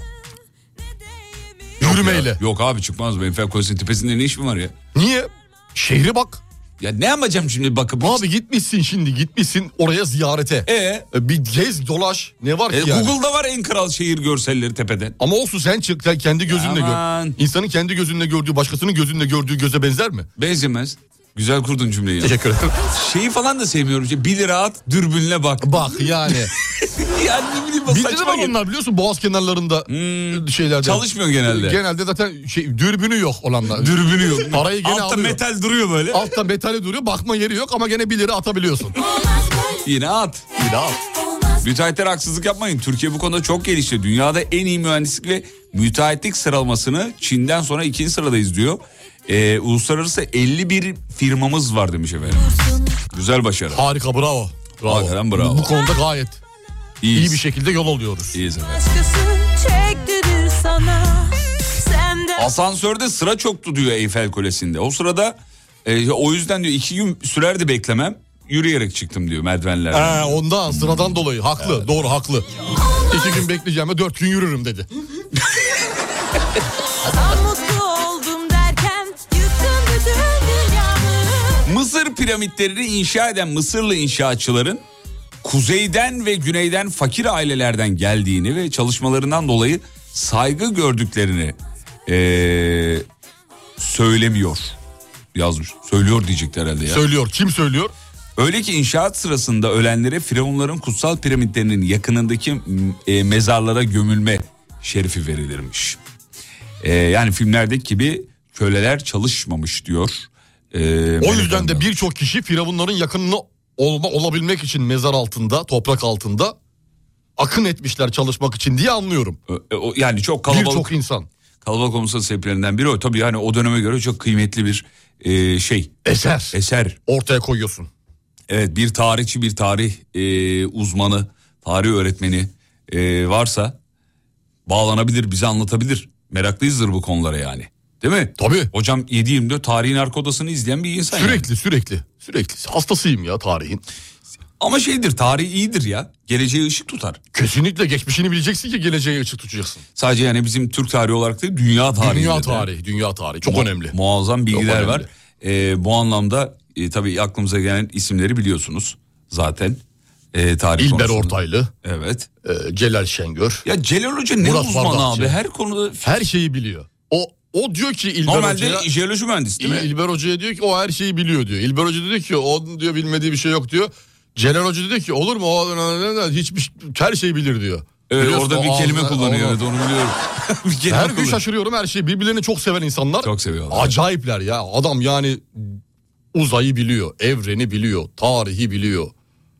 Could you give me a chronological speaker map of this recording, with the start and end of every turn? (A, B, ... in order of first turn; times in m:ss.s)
0:01.8-0:02.4 A
0:01.8-0:04.7 B
0:04.9-0:06.4 A
0:06.8-0:08.2 B
0:08.0-0:13.1 A
0:10.7-0:11.1 B
0:12.7-0:15.2 B
0:15.2-0:20.3 A
0:16.5-0:17.4 B
0:20.4-0:28.6 B
0:22.2-0:22.8 A
0:25.6-0:26.5 A
0:27.9-0:35.4 A
0:29.9-0:31.8 B
0:33.7-0:36.3 B
0:36.1-0:39.0 A
0:39.1-0:39.8 C
0:39.8-0:40.4 B
0:40.6-0:41.0 A
0:41.2-0:41.6 C
0:41.6-0:52.5 B
0:52.6-0:52.9 C
0:53.1-0:53.8 B
0:53.7-0:56.4 A
0:54.8-0:55.7 B
0:57.0-0:57.4 B
0:57.1-0:58.4 A
0:58.3-0:58.8 B
0:58.7-1:02.5 C
1:02.4-1:11.2 B
1:09.9-1:12.5 A
1:13.1-1:14.9 A
1:17.1-1:21.6 C
1:21.6-1:24.8 B
1:25.4-1:33.0 B
1:33.8-1:34.8 B
1:35.3-1:37.0 B
1:36.9-1:37.9 A
1:38.4-1:46.0 B
1:46.8-1:51.9 B
1:51.2-1:56.6 A
1:57.4-1:59.4 A
1:59.5-2:00.9 B
2:00.5-2:01.3 A
2:01.6-2:06.0 B
2:06.0-2:06.6 A
2:06.5-2:07.0 B
2:07.1-2:07.9 A
2:08.5-2:13.8 B
2:14.7-2:21.5 B
2:18.4-2:18.7 A
2:21.1-2:23.8 A
2:24.6-2:27.2 B
2:27.3-2:29.8 A
2:30.0-2:32.7 B
2:32.0-2:34.0 A
2:33.4-2:39.8 B
2:34.5-2:35.1 A
2:40.3-2:42.3 B
2:40.8-2:41.7 A
2:42.4-2:43.6 A
2:43.6-2:46.2 B
2:44.4-2:45.3 A
2:46.0-2:48.9 A
2:48.2-2:49.9 B
2:49.6-2:59.6 A
2:58.1-3:01.4 B
3:00.9-3:05.8 A
3:03.2-3:04.0 B
3:06.3-3:09.1 A